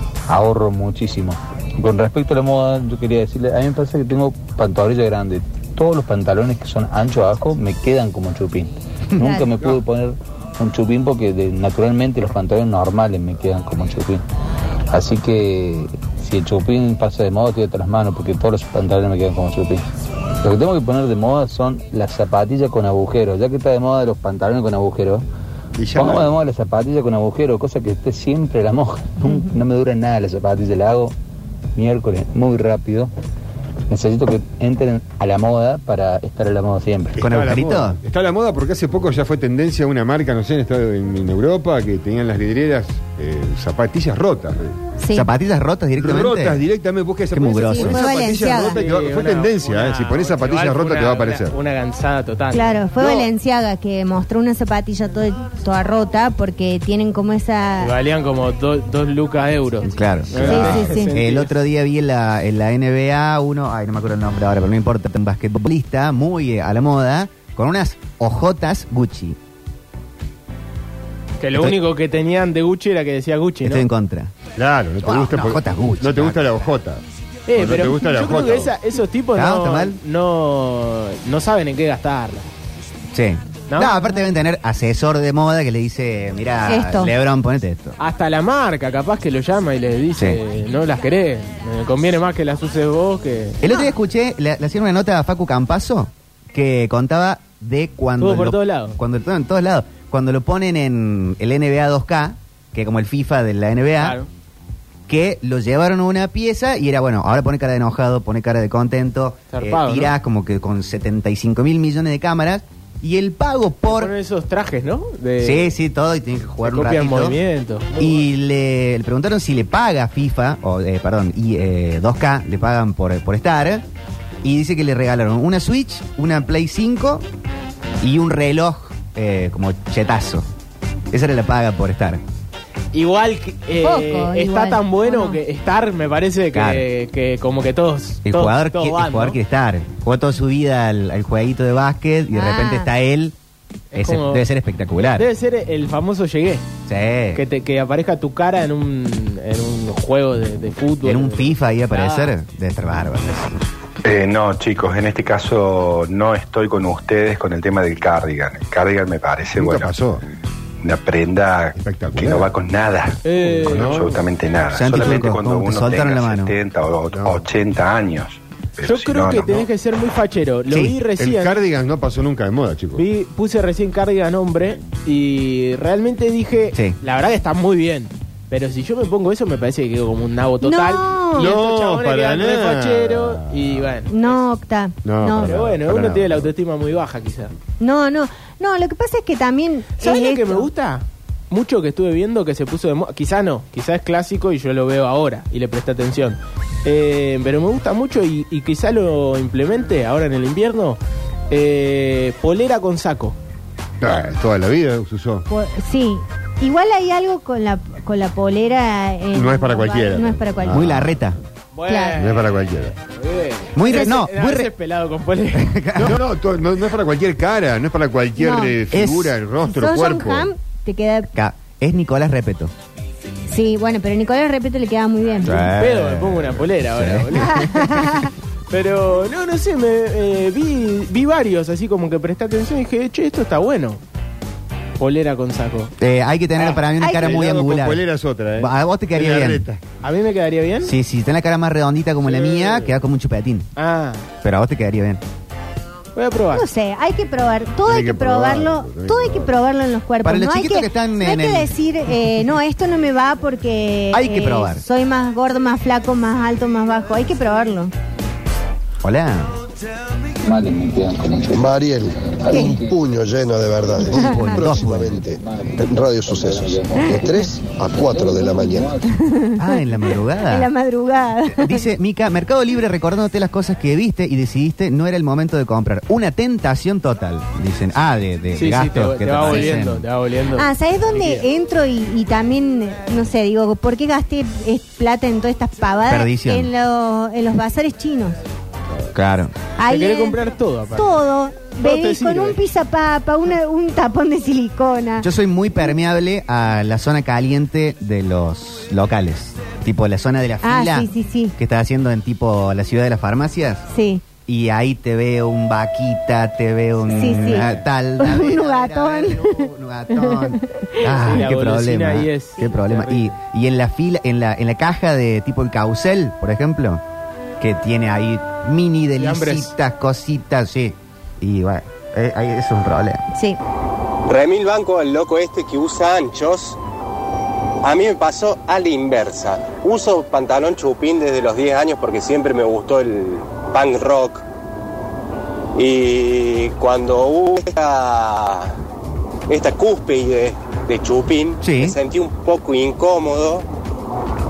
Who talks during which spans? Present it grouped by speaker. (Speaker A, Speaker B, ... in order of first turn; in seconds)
Speaker A: 0.3-14.2, 14.9-19.8, 20.4-25.2, 25.9-31.1, 31.7-33.1, 33.9-37.2, 260.4-261.8, 262.3-263.0, 263.9-269.1
Speaker B: 25.8-26.4, 37.2-44.8, 46.0-51.5, 74.6-78.7, 159.5-160.2, 161.8-162.5, 163.4-164.2, 167.1-167.4, 171.2-173.1, 181.3-183.9, 185.0-186.5, 204.0-205.4, 209.3-211.2, 212.2-212.9, 216.0-220.5, 237.0-239.8, 247.8-249.5
Speaker C: 29.2-29.5, 45.0-45.3, 47.6-48.8, 52.5-57.9, 60.4-61.1, 86.7-87.1, 133.8-135.4, 142.3-142.9, 180.6-181.5, 184.1-185.5, 187.8-190.7, 205.5-210.9, 211.9-212.2, 218.4-218.7, 219.6-221.3, 223.5-225.7, 227.4-228.3, 246.5-257.9, 262.5-262.8, 266.9-267.2, 269.1-269.6, 270.4-271.8, 280.6-288.4, 289.8-290.4, 290.9-295.3, 300.6-301.5, 303.9-304.2, 307.1-311.4, 323.3-323.6
Speaker D: 37.2-38.0, 45.1-46.6, 47.3-48.0, 59.8-69.4, 73.6-74.3, 75.0-76.7, 79.3-80.0, 83.1-88.0, 93.6-104.2, 105.1-114.1, 115.4-117.4, 118.0-123.8, 124.4-127.2, 128.0-130.4, 131.1-132.2, 136.5-136.9, 138.2-143.3, 143.9-145.3, 146.9-147.4, 151.0-153.6, 164.7-166.5, 170.7-170.9, 210.7-211.4, 213.7-214.7, 215.5-216.2, 218.9-219.4, 221.3-222.7, 225.4-227.6, 236.0-238.0, 238.6-239.6, 240.8-243.7, 244.4-245.2, 250.2-251.7, 254.1-254.8, 259.0-259.5, 264.1-265.2, 269.6-270.7, 271.5-280.1, 286.1-286.7, 289.1-289.5, 295.2-303.8, 304.4-317.0, 317.6-323.2, 341.6-342.0
Speaker E: 48.3-53.3, 57.8-61.5, 71.4-73.8, 77.5-82.5, 83.7-84.1, 88.0-93.6, 98.2-99.0, 104.0-104.3, 109.5-110.1, 113.8-115.7, 116.6-118.2, 132.9-139.4, 143.9-144.4, 145.1-146.7, 147.3-152.3, 163.2-164.2, 168.8-171.6, 172.9-184.4, 185.4-187.5, 190.0-201.0, 201.5-203.3, 211.7-215.8, 225.6-228.2, 228.7-234.0, 235.0-235.9, 240.0-240.9, 242.2-242.9, 243.8-244.2, 246.1-246.6, 278.5-281.4, 289.9-291.2, 291.8-292.6, 311.2-313.3, 319.2-319.7
Speaker F: 154.0-159.9, 160.8-169.7
Speaker G: 261.6-262.0, 262.7-264.1, 264.8-265.3, 265.8-268.9
Speaker H: 324.3-326.8, 327.8-334.4, 335.8-338.7, 339.5-343.6